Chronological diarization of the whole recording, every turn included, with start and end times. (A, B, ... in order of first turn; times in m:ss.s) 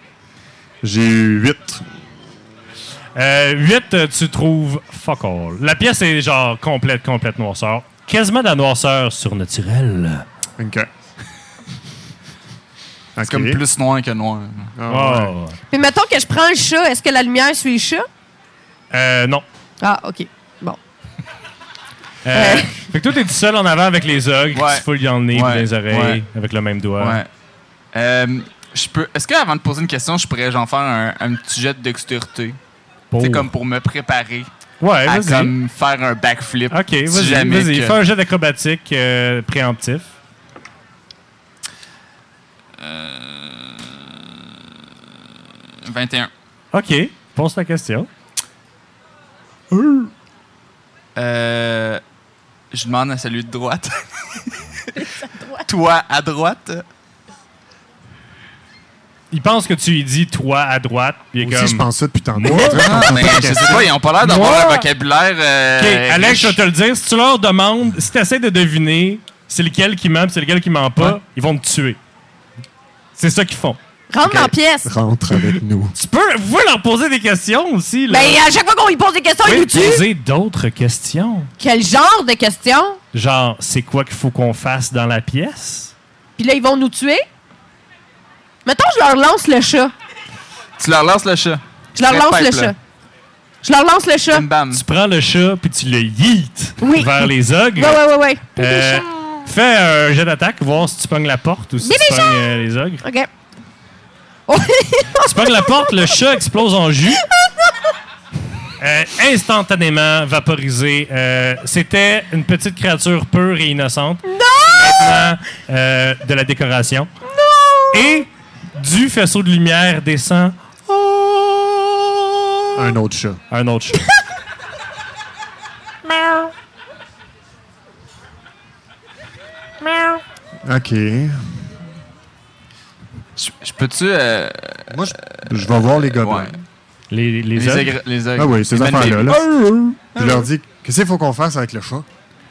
0:00.8-0:01.9 A
0:03.2-0:10.3 B
0:10.6-0:10.9 A
0:13.2-0:13.6 A
0:13.2-0:14.7 C
0:14.8-0:15.3 A
0:14.9-0:15.6 B
0:15.7-0:18.1 D
0:18.9-0:19.4 B
0:19.8-0:20.8 D
0:22.2-0:27.2 B
0:22.3-0:22.9 D
0:24.5-0:26.2 C
0:27.0-0:27.3 C
0:27.9-0:32.6 C
0:33.1-0:33.5 B
0:33.2-0:34.5 C
0:34.8-0:35.5 B
0:35.0-0:38.0 C
0:36.7-0:40.1 B
0:42.8-0:44.5 C
0:45.8-0:46.3 C
0:46.7-0:48.1 B
0:49.7-0:50.1 B
0:51.2-0:52.0 C
0:52.7-0:54.9 C
0:55.0-0:55.6 D
0:55.6-0:56.8 C
0:59.3-1:02.9 B
1:01.4-1:04.0 A
1:02.4-1:06.6 C
1:04.2-1:04.8 B
1:05.8-1:12.0 B
1:13.2-1:13.8 B
1:14.1-1:14.9 D
1:14.2-1:15.9 A
1:15.9-1:18.4 B
1:18.1-1:20.0 D
1:19.4-1:21.5 B
1:21.6-1:23.0 D
1:23.1-1:25.9 B
1:26.4-1:27.2 D
1:28.6-1:29.9 D
1:30.8-1:32.7 C
1:32.0-1:32.8 D
1:33.6-1:34.4 D
1:34.3-1:34.8 C
1:34.7-1:38.0 B
1:36.8-1:39.4 D
1:38.6-1:43.0 B
1:41.8-1:43.3 D
1:44.5-1:46.2 D
1:45.2-1:47.2 B
1:47.2-1:47.7 D
1:48.8-1:57.1 B
1:54.3-1:55.3 D
1:57.2-1:58.2 D
1:57.9-2:02.7 B
2:02.8-2:03.4 A
2:03.5-2:04.0 B
2:06.1-2:06.5 B
2:09.8-2:10.2 B
2:10.6-2:11.7 A
2:13.4-2:16.6 C
2:14.9-2:16.6 A
2:17.1-2:17.9 B
2:17.6-2:19.4 C
2:18.4-2:19.4 A
2:19.3-2:20.0 B
2:20.2-2:20.5 C
2:20.2-2:22.1 A